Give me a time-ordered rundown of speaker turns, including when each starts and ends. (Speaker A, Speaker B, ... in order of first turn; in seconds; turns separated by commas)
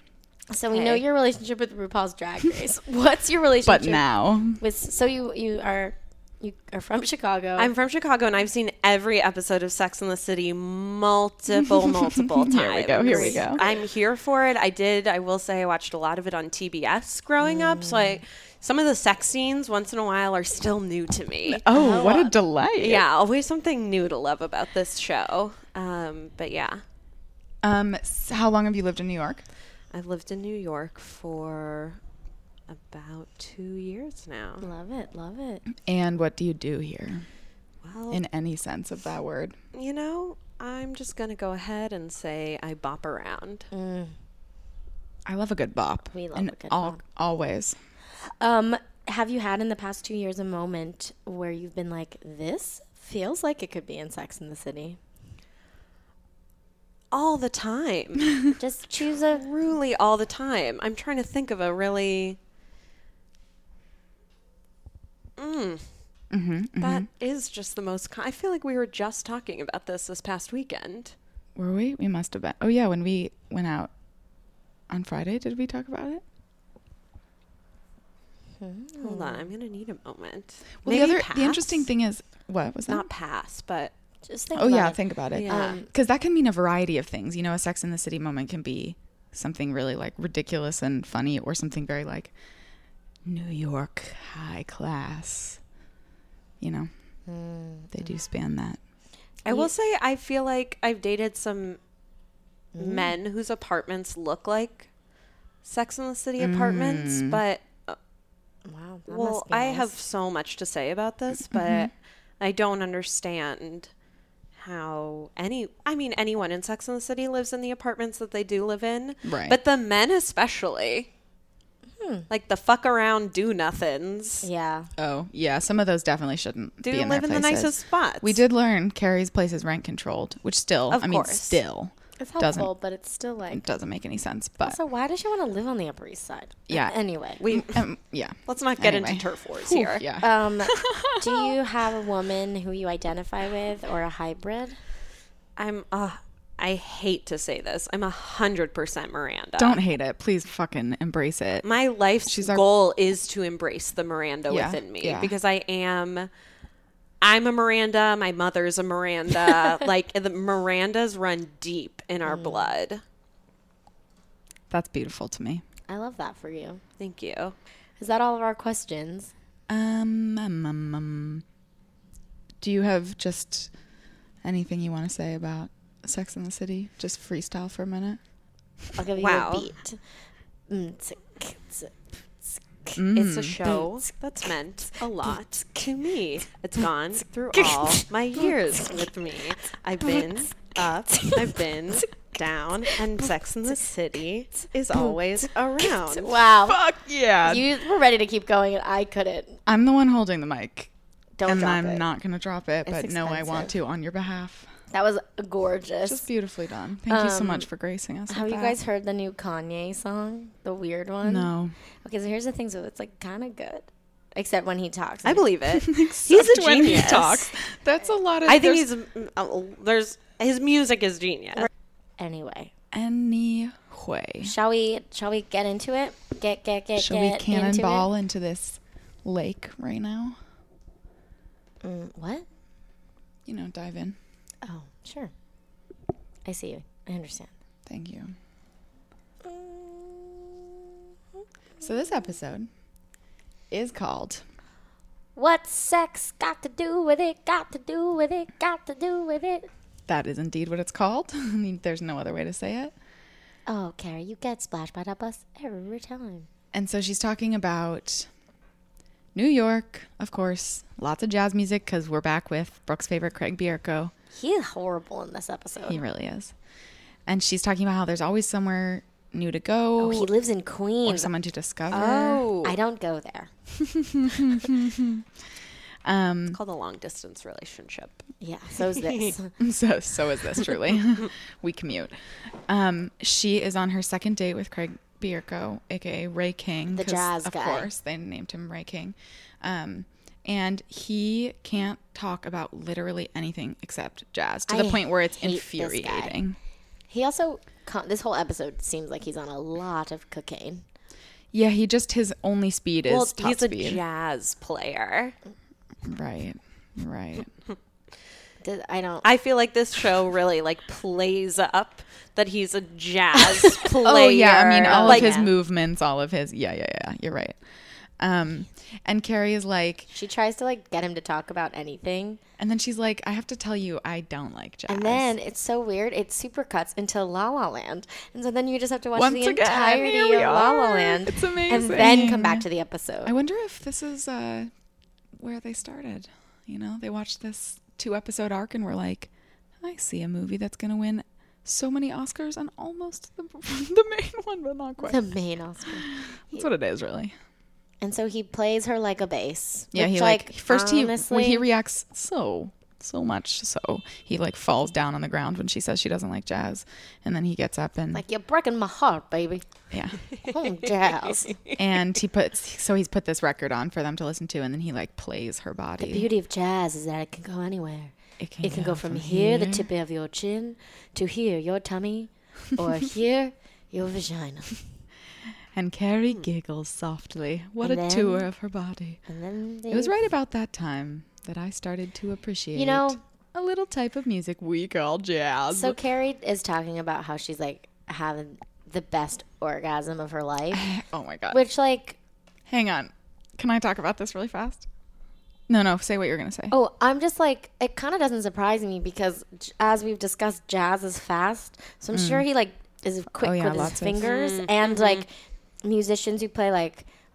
Speaker A: 0.5-7.7, Speaker B: 0.7-1.0, Speaker C: 3.6-4.6, Speaker B: 7.6-22.2, Speaker C: 11.6-13.6, Speaker A: 13.0-13.7, Speaker A: 17.4-18.2, Speaker C: 21.5-23.0, Speaker A: 21.7-22.3, Speaker B: 22.8-26.8, Speaker C: 27.6-29.4, Speaker B: 29.9-32.0, Speaker B: 32.7-34.6, Speaker A: 34.6-35.6, Speaker C: 35.8-37.3, Speaker B: 37.8-38.2, Speaker C: 38.1-39.5, Speaker B: 39.7-43.7, Speaker A: 43.7-44.1, Speaker C: 45.2-47.8, Speaker A: 46.1-47.0, Speaker A: 48.4-55.0, Speaker B: 57.1-58.4, Speaker A: 58.6-59.4, Speaker B: 59.3-62.4, Speaker B: 65.4-65.9, Speaker C: 66.3-67.1, Speaker B: 66.8-71.1, Speaker C: 71.5-73.9, Speaker C: 74.9-76.2, Speaker A: 78.6-79.5, Speaker B: 79.0-81.9, Speaker C: 80.8-83.1, Speaker B: 82.9-83.9, Speaker A: 84.2-85.9, Speaker C: 84.5-92.3, Speaker B: 85.3-85.8, Speaker C: 93.2-95.6, Speaker C: 96.6-96.9, Speaker A: 97.2-98.2, Speaker C: 97.9-98.8, Speaker B: 99.4-101.8, Speaker A: 102.7-103.1, Speaker B: 102.8-104.9, Speaker B: 105.6-108.0, Speaker C: 106.4-107.4, Speaker A: 108.7-109.9, Speaker B: 109.1-113.9, Speaker C: 111.5-111.9, Speaker B: 114.5-121.1, Speaker C: 119.2-119.6, Speaker A: 122.0-122.3, Speaker B: 122.3-124.5, Speaker A: 124.4-124.9, Speaker C: 125.0-132.7, Speaker B: 126.8-128.4, Speaker B: 130.9-131.6, Speaker A: 132.2-133.6, Speaker C: 133.5-134.8, Speaker A: 134.6-137.4, Speaker C: 136.7-141.5, Speaker B: 137.4-137.8, Speaker B: 138.5-140.0, Speaker A: 140.2-144.8, Speaker B: 145.6-149.8, Speaker C: 149.6-151.7, Speaker B: 151.6-156.3, Speaker C: 152.2-152.6, Speaker C: 154.5-155.3, Speaker B: 157.2-163.0, Speaker A: 162.2-162.7, Speaker C: 164.7-165.6, Speaker A: 165.9-166.8, Speaker B: 167.0-167.5, Speaker A: 168.0-169.3, Speaker C: 169.7-171.4, Speaker C: 172.6-173.7, Speaker C: 174.4-178.2, Speaker A: 178.9-180.0, Speaker B: 179.2-179.7, Speaker A: 180.7-181.9, Speaker A: 182.4-183.0, Speaker C: 182.9-183.6, Speaker B: 183.1-196.4, Speaker A: 187.5-189.0, Speaker A: 190.0-190.5, Speaker A: 191.1-192.0, Speaker A: 194.9-195.2, Speaker A: 195.8-196.8, Speaker C: 196.7-197.7, Speaker A: 197.4-199.6, Speaker C: 199.7-200.9, Speaker A: 201.4-202.1, Speaker C: 201.4-204.7, Speaker A: 202.8-203.8, Speaker A: 204.9-206.3, Speaker C: 206.1-208.8, Speaker A: 207.1-207.7, Speaker A: 208.3-211.5, Speaker C: 211.2-211.7, Speaker A: 212.0-215.4, Speaker B: 215.2-217.5, Speaker C: 215.7-218.9, Speaker B: 218.4-221.7, Speaker A: 222.2-222.7, Speaker C: 222.9-224.5, Speaker A: 224.4-228.1, Speaker C: 226.9-230.4, Speaker A: 231.8-232.4, Speaker C: 233.4-234.2, Speaker A: 234.6-235.3, Speaker A: 236.4-237.5, Speaker C: 237.8-238.3, Speaker A: 239.4-240.7, Speaker A: 241.8-242.1, Speaker C: 241.8-242.7, Speaker C: 243.7-244.4, Speaker A: 245.3-249.7, Speaker C: 250.1-252.9, Speaker A: 253.7-256.5, Speaker C: 256.7-258.3, Speaker C: 259.3-264.1, Speaker A: 264.3-266.0, Speaker C: 265.9-266.5, Speaker C: 267.3-270.3, Speaker A: 270.0-271.3, Speaker C: 271.0-272.4, Speaker B: 271.9-272.8, Speaker A: 272.6-273.5, Speaker C: 273.8-275.2, Speaker C: 276.0-276.6, Speaker B: 276.5-278.2, Speaker A: 278.4-279.5, Speaker B: 278.8-279.3, Speaker C: 279.6-282.1, Speaker C: 282.7-296.6, Speaker A: 286.9-287.9, Speaker A: 294.7-296.4, Speaker A: 297.1-300.8, Speaker C: 301.5-304.0, Speaker B: 303.1-305.3, Speaker C: 306.0-307.5, Speaker A: 308.6-309.3, Speaker B: 309.2-315.5, Speaker A: 313.6-313.9, Speaker C: 314.0-317.6, Speaker A: 314.9-315.4, Speaker C: 318.2-320.1, Speaker A: 320.1-322.4, Speaker C: 322.6-325.3, Speaker A: 324.9-333.3, Speaker C: 329.1-332.6, Speaker C: 333.2-334.7, Speaker C: 335.4-339.3, Speaker C: 339.8-345.3, Speaker A: 345.0-346.6, Speaker C: 345.9-347.3, Speaker A: 348.0-351.7, Speaker C: 349.9-358.2, Speaker A: 358.1-359.7, Speaker C: 359.9-360.2, Speaker A: 360.4-361.6, Speaker C: 361.8-366.3, Speaker A: 366.0-374.8, Speaker C: 368.4-369.9, Speaker C: 375.7-379.2, Speaker A: 377.8-378.5, Speaker A: 379.3-380.2, Speaker C: 379.9-386.0, Speaker A: 382.7-383.2, Speaker A: 385.7-390.9, Speaker C: 390.7-391.6, Speaker A: 391.5-392.2, Speaker C: 392.7-394.9, Speaker C: 395.7-396.7, Speaker A: 396.7-405.3, Speaker C: 402.1-402.4, Speaker C: 403.3-404.3, Speaker B: 404.2-405.2, Speaker A: 405.8-407.1